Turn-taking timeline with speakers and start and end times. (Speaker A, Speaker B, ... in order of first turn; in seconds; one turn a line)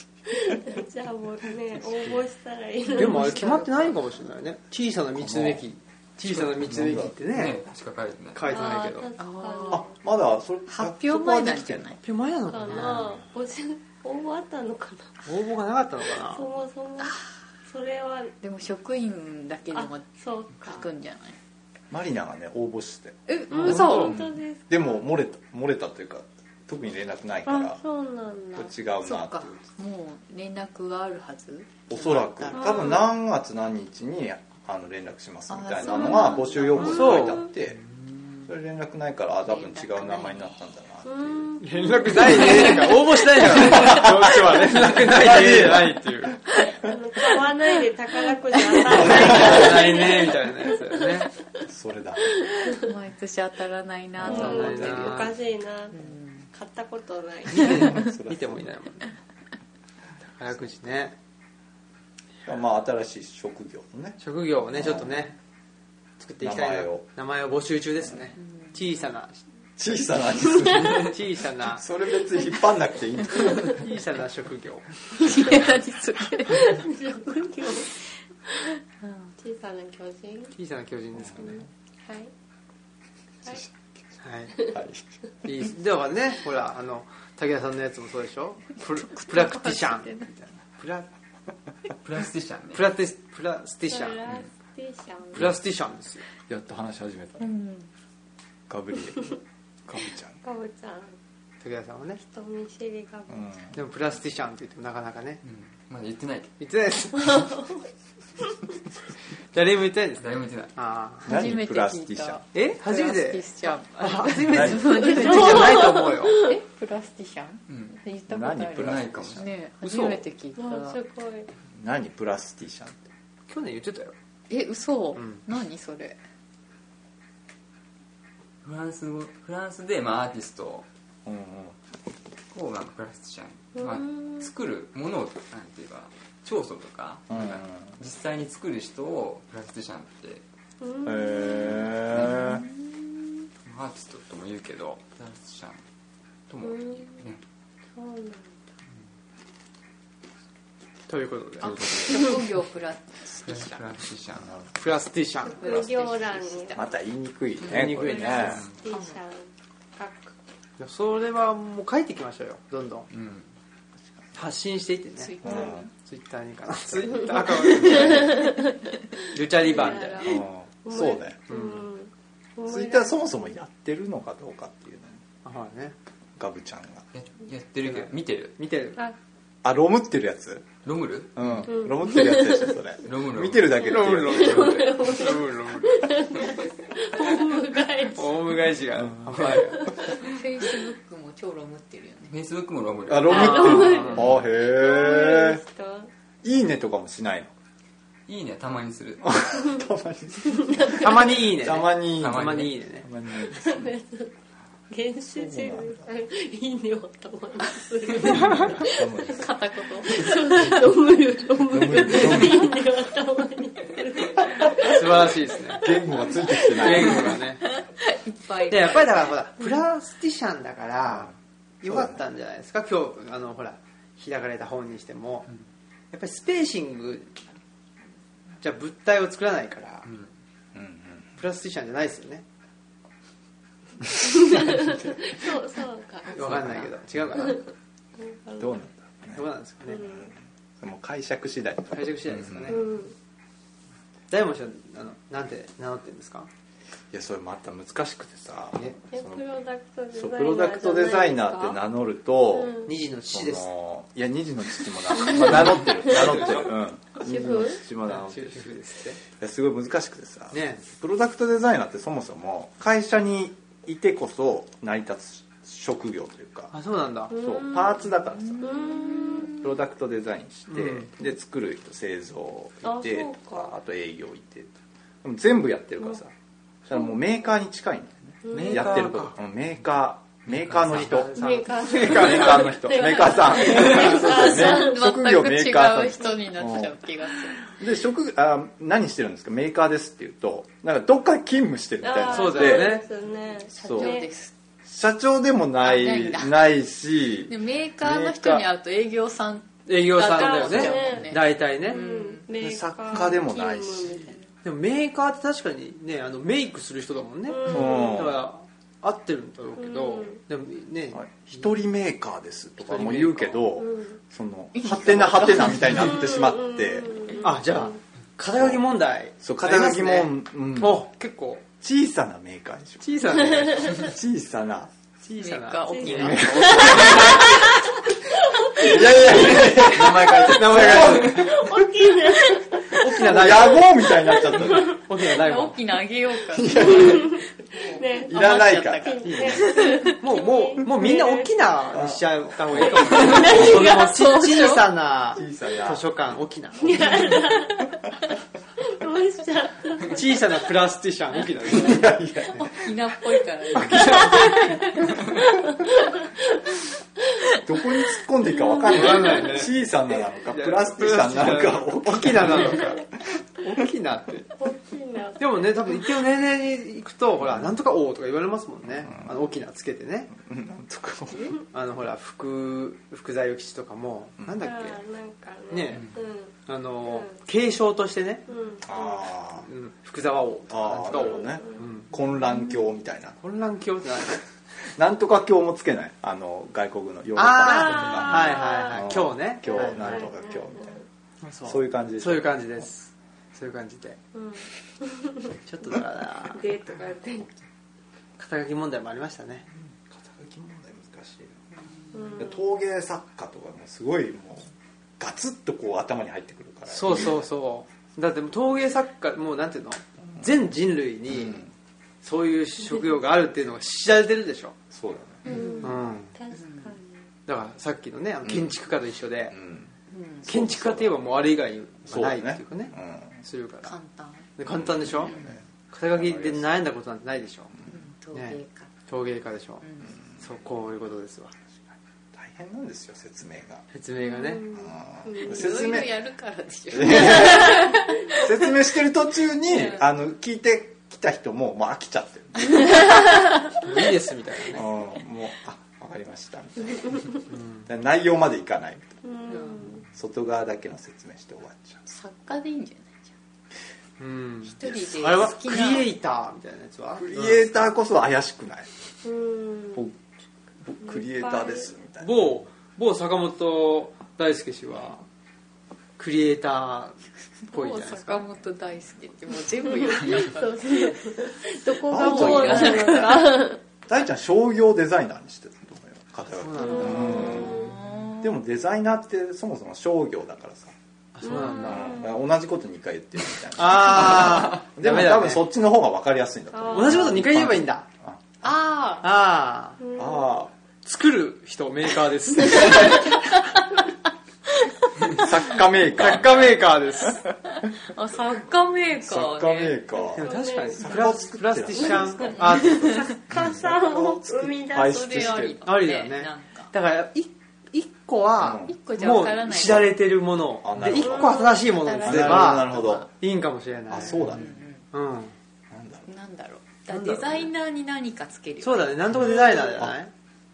Speaker A: 0.3-3.9
Speaker B: 3.0-7.6
Speaker C: 5.2-5.6
Speaker C: 6.3-7.1
Speaker D: 7.3-8.7
Speaker B: 8.3-9.1
Speaker A: 8.5-9.9
Speaker E: 9.2-9.9
Speaker C: 9.7-11.9
Speaker E: 10.7-12.0
Speaker B: 12.0-13.2
Speaker A: 12.5-15.2
Speaker B: 15.2-16.5
Speaker A: 16.2-18.4
Speaker E: 18.4-20.1
Speaker A: 19.7-20.9
Speaker E: 20.6-21.4
Speaker C: 21.9-23.2
Speaker E: 23.3-24.2
Speaker B: 23.5-24.2
Speaker A: 23.6-25.0
Speaker C: 24.7-27.8
Speaker A: 27.5-28.7
Speaker C: 28.6-29.7
Speaker E: 29.0-33.0
Speaker C: 31.9-37.8
Speaker A: 32.5-33.1
Speaker E: 35.5-37.4
Speaker B: 36.8-37.5
Speaker C: 38.5-41.5
Speaker E: 39.5-40.5
Speaker A: 41.0-42.4
Speaker B: 41.6-46.4
Speaker C: 43.5-46.0
Speaker A: 46.8-50.5
Speaker C: 48.9-49.8
Speaker B: 48.9-51.3
Speaker C: 51.7-52.2
Speaker A: 52.4-52.9
Speaker E: 52.7-55.4
Speaker B: 54.2-55.3
Speaker A: 54.2-58.0
Speaker E: 55.9-56.5
Speaker B: 57.5-59.2
Speaker C: 57.8-58.6
Speaker B: 60.2-61.2
Speaker C: 62.5-64.2
Speaker B: 64.2-65.3
Speaker C: 64.8-65.2
Speaker B: 66.2-69.4
Speaker C: 66.4-67.0
Speaker C: 69.8-71.1
Speaker B: 71.0-71.8
Speaker C: 71.7-73.8
Speaker B: 73.6-75.5
Speaker E: 75.2-76.7
Speaker A: 76.5-78.0
Speaker E: 79.0-79.3
Speaker A: 79.4-80.5
Speaker B: 80.5-81.6
Speaker A: 82.0-82.3
Speaker B: 84.2-84.5
Speaker C: 84.7-85.0
Speaker B: 85.5-91.1
Speaker E: 89.2-90.3
Speaker D: 92.0-92.8
Speaker B: 92.7-94.2
Speaker A: 93.9-95.5
Speaker B: 95.3-96.2
Speaker C: 96.5-97.5
Speaker E: 97.4-97.9
Speaker C: 98.7-100.4
Speaker A: 100.4-101.2
Speaker B: 101.6-102.2
Speaker A: 102.2-103.5
Speaker C: 103.3-103.8
Speaker B: 103.7-105.4
Speaker D: 105.4-106.5
Speaker B: 106.6-107.5
Speaker A: 107.2-107.8
Speaker B: 109.5-111.3
Speaker D: 110.2-110.7
Speaker E: 111.3-121.0
Speaker C: 111.3-112.4
Speaker B: 112.5-116.4
Speaker C: 114.5-115.0
Speaker A: 114.9-116.6
Speaker D: 117.7-118.0
Speaker C: 118.3-120.2
Speaker D: 118.8-119.5
Speaker A: 120.6-121.5
Speaker C: 121.8-123.1
Speaker B: 123.5-124.2
Speaker E: 124.5-126.2
Speaker D: 128.6-130.9
Speaker C: 131.3-131.8
Speaker D: 132.5-140.4
Speaker A: 133.8-134.4
Speaker C: 137.3-138.0
Speaker A: 140.8-142.1
Speaker C: 141.1-142.7
Speaker D: 142.1-142.4
Speaker E: 142.2-142.8
Speaker D: 143.7-145.8
Speaker D: 146.5-147.4
Speaker A: 146.6-147.3
Speaker A: 147.9-148.6
Speaker B: 151.1-151.9
Speaker E: 151.6-153.8
Speaker D: 153.5-154.6
Speaker B: 154.8-155.6
Speaker A: 155.5-156.9
Speaker E: 155.6-156.8
Speaker C: 156.7-158.7
Speaker B: 157.6-158.6
Speaker A: 157.9-160.3
Speaker D: 158.5-158.8
Speaker E: 158.9-159.2
Speaker B: 160.8-163.1
Speaker D: 163.1-163.5
Speaker B: 164.3-168.5
Speaker E: 165.2-165.9
Speaker C: 165.4-165.9
Speaker A: 167.3-168.9
Speaker B: 169.3-170.3
Speaker A: 169.6-173.2
Speaker C: 170.2-171.4
Speaker B: 171.5-171.8
Speaker C: 172.7-175.2
Speaker B: 175.4-175.9
Speaker C: 176.4-177.1
Speaker D: 177.1-178.6
Speaker B: 177.8-179.0
Speaker C: 179.6-180.7
Speaker D: 180.8-181.7
Speaker C: 181.3-185.0
Speaker A: 181.7-182.8
Speaker D: 183.0-183.9
Speaker B: 183.8-186.0
Speaker A: 184.2-188.3
Speaker B: 188.2-189.9
Speaker C: 189.0-189.4
Speaker A: 189.8-190.2
Speaker E: 190.1-192.3
Speaker D: 192.3-194.3
Speaker C: 193.1-195.6
Speaker A: 193.3-196.1
Speaker B: 193.7-194.3
Speaker C: 196.4-197.5
Speaker D: 198.3-199.4
Speaker C: 199.2-203.9
Speaker A: 200.5-201.0
Speaker B: 201.0-203.1
Speaker D: 202.2-202.8
Speaker A: 203.4-204.3
Speaker A: 204.9-209.3
Speaker C: 205.3-206.0
Speaker C: 208.2-209.5
Speaker E: 209.3-210.8
Speaker A: 210.0-215.2
Speaker C: 211.7-212.7
Speaker B: 214.8-217.7
Speaker C: 215.8-217.4
Speaker E: 217.8-219.2
Speaker B: 218.7-225.5
Speaker C: 221.9-222.1
Speaker B: 226.1-227.4
Speaker B: 228.6-230.1
Speaker C: 230.7-231.3
Speaker B: 231.4-232.4
Speaker A: 234.2-236.5
Speaker B: 236.3-237.6
Speaker A: 237.3-238.8
Speaker C: 238.6-239.4
Speaker B: 239.3-240.1
Speaker A: 239.9-240.3
Speaker C: 240.8-242.8
Speaker B: 241.9-242.9
Speaker A: 242.7-243.1
Speaker B: 244.3-246.5
Speaker C: 247.1-249.4
Speaker A: 249.1-251.8
Speaker C: 250.1-258.8
Speaker A: 252.5-252.9
Speaker B: 252.8-253.7
Speaker A: 255.4-256.4
Speaker A: 257.2-257.8
Speaker B: 258.1-259.2
Speaker C: 259.3-266.7
Speaker B: 260.5-260.9
Speaker B: 266.7-267.3
Speaker C: 267.3-268.9
Speaker A: 267.3-269.6
Speaker E: 268.5-269.5
Speaker C: 269.4-276.3
Speaker B: 270.7-271.1
Speaker A: 272.8-273.7
Speaker C: 276.9-281.3
Speaker A: 278.4-279.1
Speaker B: 278.5-279.4
Speaker B: 280.8-284.3
Speaker A: 281.4-285.1
Speaker C: 281.9-286.9
Speaker E: 283.8-287.7
Speaker C: 287.8-293.0
Speaker A: 292.0-294.3
Speaker B: 292.3-293.1
Speaker E: 293.7-294.5
Speaker C: 293.8-294.2
Speaker C: 294.9-298.6
Speaker E: 295.8-296.6
Speaker E: 297.5-302.4
Speaker B: 299.9-302.0
Speaker A: 300.2-304.4
Speaker C: 302.6-304.4
Speaker B: 304.6-311.7
Speaker A: 307.5-308.2
Speaker C: 307.7-308.4
Speaker A: 309.8-310.4
Speaker C: 311.1-317.1
Speaker B: 312.8-313.7
Speaker A: 313.8-314.2
Speaker E: 314.8-316.1
Speaker A: 315.9-317.9
Speaker B: 317.4-321.6
Speaker C: 319.4-321.1
Speaker C: 321.8-323.2
Speaker B: 323.0-323.9
Speaker C: 323.8-324.9
Speaker B: 325.2-327.3
Speaker E: 325.4-327.6
Speaker A: 325.9-330.3
Speaker C: 326.8-327.5
Speaker C: 328.8-331.7
Speaker B: 329.5-331.6
Speaker A: 330.8-332.9
Speaker B: 332.9-334.1
Speaker C: 332.9-335.0
Speaker A: 334.2-335.0
Speaker B: 334.7-335.8
Speaker E: 335.3-337.3
Speaker C: 336.5-337.4
Speaker A: 336.9-341.5
Speaker C: 338.3-339.6
Speaker E: 338.3-340.1
Speaker B: 339.4-347.2
Speaker C: 341.9-342.2
Speaker C: 342.7-343.4
Speaker A: 342.7-344.1
Speaker E: 343.2-344.9
Speaker C: 345.4-346.0
Speaker A: 346.8-348.0
Speaker A: 348.8-350.4
Speaker B: 350.1-352.6
Speaker C: 351.7-352.9
Speaker E: 352.6-354.6
Speaker B: 353.7-354.8
Speaker A: 354.3-354.8
Speaker C: 357.6-363.0
Speaker A: 358.7-359.4
Speaker B: 358.9-359.8
Speaker B: 360.5-363.1
Speaker B: 363.6-364.5
Speaker A: 364.6-365.6
Speaker B: 365.4-370.3
Speaker C: 369.0-369.3
Speaker C: 370.4-371.6
Speaker B: 371.7-375.0
Speaker A: 374.6-376.5
Speaker B: 375.7-376.1
Speaker D: 375.9-376.2
Speaker B: 376.6-378.5
Speaker A: 378.5-379.3
Speaker C: 378.9-379.7
Speaker B: 379.6-382.1
Speaker C: 380.7-383.4
Speaker A: 381.1-381.8
Speaker B: 383.4-384.4
Speaker C: 385.0-391.0
Speaker B: 387.4-390.3
Speaker A: 387.6-389.0
Speaker A: 390.0-391.0
Speaker B: 391.4-394.2
Speaker C: 391.7-392.6
Speaker A: 394.3-395.6
Speaker B: 395.6-396.6
Speaker A: 396.5-397.5
Speaker B: 398.4-399.7
Speaker C: 399.9-401.6
Speaker A: 402.1-402.6
Speaker C: 402.4-407.5
Speaker B: 406.9-411.6
Speaker C: 411.3-411.7
Speaker B: 412.2-414.8
Speaker C: 414.9-415.5
Speaker E: 415.5-416.0
Speaker A: 415.5-417.1
Speaker B: 415.8-416.3
Speaker E: 416.5-416.9
Speaker B: 417.5-419.6
Speaker C: 418.4-418.7
Speaker C: 419.5-419.9
Speaker E: 420.1-420.5
Speaker C: 420.4-421.2
Speaker B: 420.5-424.0
Speaker C: 422.1-423.4
Speaker E: 423.9-424.5
Speaker B: 424.6-425.4
Speaker C: 424.7-425.6
Speaker E: 425.3-425.6
Speaker B: 425.9-427.8
Speaker C: 426.1-426.7
Speaker E: 427.9-428.9
Speaker B: 428.3-429.9
Speaker E: 429.8-430.1
Speaker B: 430.4-431.6
Speaker C: 432.3-433.8
Speaker B: 433.9-434.6
Speaker A: 434.5-435.7
Speaker C: 434.7-436.2
Speaker E: 435.4-438.5
Speaker C: 436.9-443.0
Speaker B: 443.8-444.9
Speaker C: 444.7-447.3
Speaker B: 447.5-447.8
Speaker C: 447.9-449.2
Speaker A: 449.2-450.0
Speaker C: 450.1-452.0
Speaker E: 452.1-453.3
Speaker B: 454.2-457.9
Speaker E: 454.7-456.1
Speaker C: 457.2-458.9
Speaker A: 459.2-460.1
Speaker C: 460.8-462.4
Speaker A: 461.0-461.9
Speaker B: 462.2-465.2
Speaker B: 466.2-468.4
Speaker E: 467.7-471.3
Speaker A: 470.0-473.8
Speaker E: 472.1-473.6
Speaker C: 472.1-480.9
Speaker B: 476.5-477.8
Speaker E: 477.0-478.5
Speaker A: 477.0-477.9
Speaker B: 481.4-482.3
Speaker A: 481.5-482.3
Speaker C: 481.5-488.4
Speaker B: 483.7-485.7
Speaker A: 486.7-487.3
Speaker B: 486.9-488.1
Speaker E: 488.6-489.3
Speaker B: 489.2-490.0
Speaker A: 490.0-490.5
Speaker C: 490.2-490.7
Speaker B: 491.1-493.6
Speaker E: 492.9-493.6
Speaker C: 495.3-496.9
Speaker B: 496.1-497.4
Speaker E: 497.9-500.0
Speaker C: 499.2-505.8
Speaker A: 500.3-505.7
Speaker B: 500.4-503.3
Speaker E: 505.0-506.9
Speaker B: 505.8-515.5
Speaker C: 508.6-508.9
Speaker E: 508.9-510.1
Speaker C: 510.8-511.7
Speaker A: 511.2-511.9
Speaker E: 512.0-513.3
Speaker C: 512.2-513.3
Speaker C: 514.1-514.8
Speaker E: 514.5-515.0
Speaker C: 515.9-516.2
Speaker E: 516.3-519.2
Speaker B: 517.1-517.7
Speaker B: 518.8-520.3